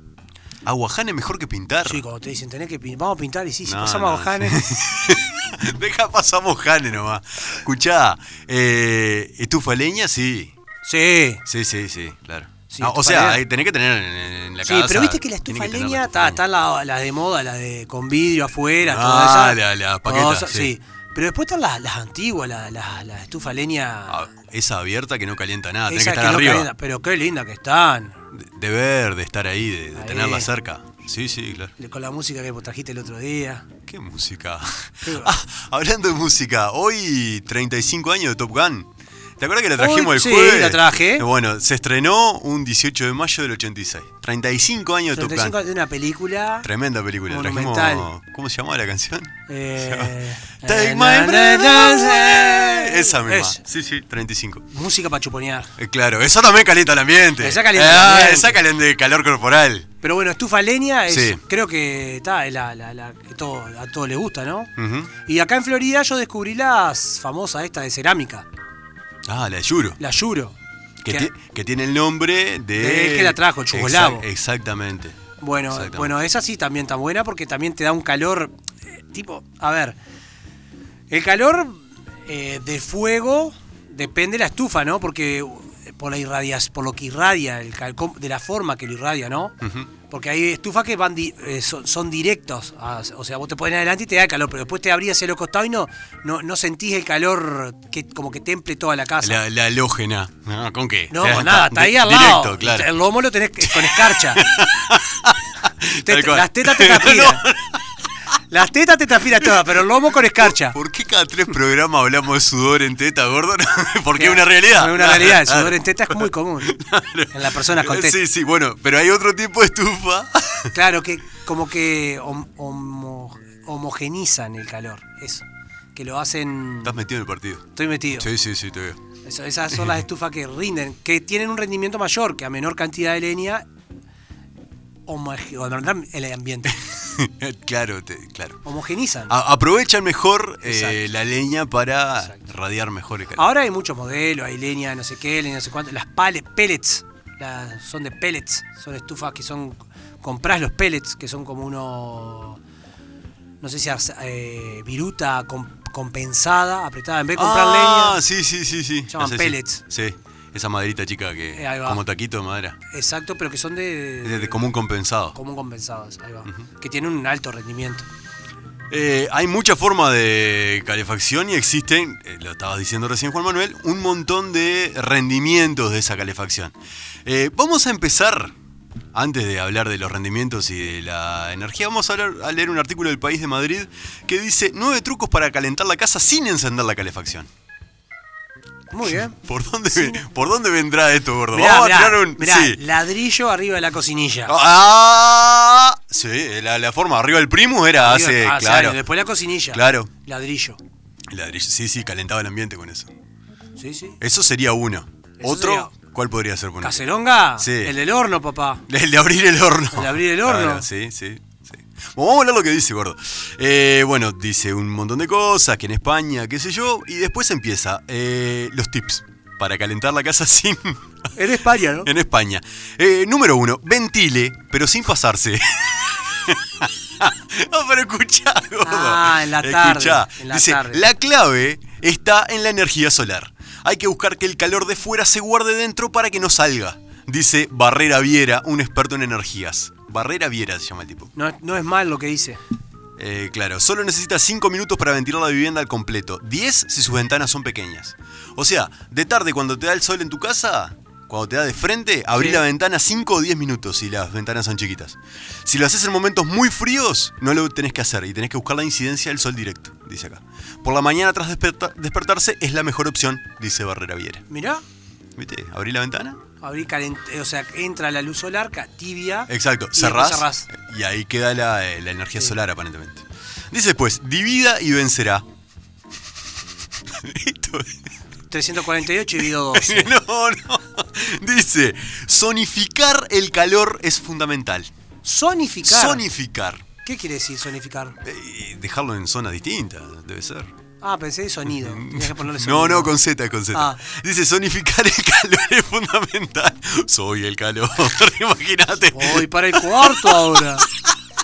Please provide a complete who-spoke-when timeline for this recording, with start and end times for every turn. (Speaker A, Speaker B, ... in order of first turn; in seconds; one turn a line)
Speaker A: 0.6-2.0
Speaker B: 1.8-4.6
Speaker A: 3.6-10.5
Speaker B: 10.8-11.4
Speaker A: 11.4-16.4
Speaker B: 12.7-13.4
Speaker B: 14.6-24.2
Speaker A: 18.8-20.7
Speaker A: 24.1-26.7
Speaker B: 25.9-28.2
Speaker A: 28.3-31.7
Speaker B: 29.9-30.5
Speaker B: 31.8-33.7
Speaker A: 33.8-45.5
Speaker B: 35.0-35.3
Speaker B: 39.8-41.3
Speaker B: 45.1-46.7
Speaker A: 46.6-54.6
Speaker B: 47.3-48.1
Speaker B: 49.5-53.6
Speaker B: 54.7-55.7
Speaker A: 55.8-59.9
Speaker B: 57.4-58.6
Speaker B: 60.0-64.7
Speaker A: 61.1-61.4
Speaker A: 64.8-65.1
Speaker B: 65.2-68.5
Speaker A: 69.2-70.0
Speaker B: 70.0-70.5
Speaker A: 71.0-75.2
Speaker B: 72.8-74.3
Speaker B: 75.4-80.0
Speaker A: 75.7-76.2
Speaker B: 81.1-89.5
Speaker A: 89.6-89.9
Speaker B: 90.1-99.4
Speaker A: 99.2-102.9
Speaker B: 101.1-104.5
Speaker A: 103.6-107.8
Speaker B: 106.0-107.4
Speaker B: 108.5-110.8
Speaker A: 110.4-120.7
Speaker B: 114.1-116.7
Speaker B: 117.3-118.2
Speaker B: 120.7-125.4
Speaker B: 125.9-127.0
Speaker A: 126.8-129.0
Speaker B: 127.7-128.3
Speaker B: 129.2-133.6
Speaker B: 135.1-136.8
Speaker A: 136.7-138.6
Speaker B: 138.6-139.3
Speaker A: 139.3-143.5
Speaker B: 140.6-141.0
Speaker B: 143.3-152.6
Speaker B: 153.6-158.2
Speaker A: 157.3-162.8
Speaker B: 159.1-159.8
Speaker B: 161.6-162.0
Speaker B: 162.9-164.6
Speaker A: 164.2-165.3
Speaker B: 165.3-168.1
Speaker A: 168.9-178.5
Speaker A: 179.1-187.5
Speaker B: 188.9-189.3
Speaker A: 189.1-192.8
Speaker B: 189.9-190.2
Speaker B: 191.5-194.5
Speaker A: 194.5-199.0
Speaker B: 198.0-200.8
Speaker A: 199.7-200.1
Speaker A: 201.3-203.1
Speaker B: 203.8-204.2
Speaker A: 204.2-207.0
Speaker B: 205.4-205.9
Speaker B: 206.8-208.8
Speaker A: 207.6-207.9
Speaker A: 208.9-221.1
Speaker B: 209.9-210.8
Speaker B: 221.3-222.1
Speaker A: 222.0-241.3
Speaker B: 228.8-231.1
Speaker B: 241.3-242.6
Speaker A: 243.2-264.4
Speaker B: 252.3-252.6
Speaker B: 264.5-264.8
Speaker A: 265.4-266.4
Speaker B: 266.6-270.7
Speaker A: 269.5-275.4
Speaker A: 277.1-278.0
Speaker B: 278.5-280.1
Speaker A: 279.7-284.9
Speaker B: 285.2-286.2
Speaker A: 285.8-286.8
Speaker B: 287.0-288.2
Speaker A: 288.2-290.7
Speaker B: 291.0-293.1
Speaker A: 291.7-301.1
Speaker B: 293.7-294.0
Speaker B: 299.1-300.9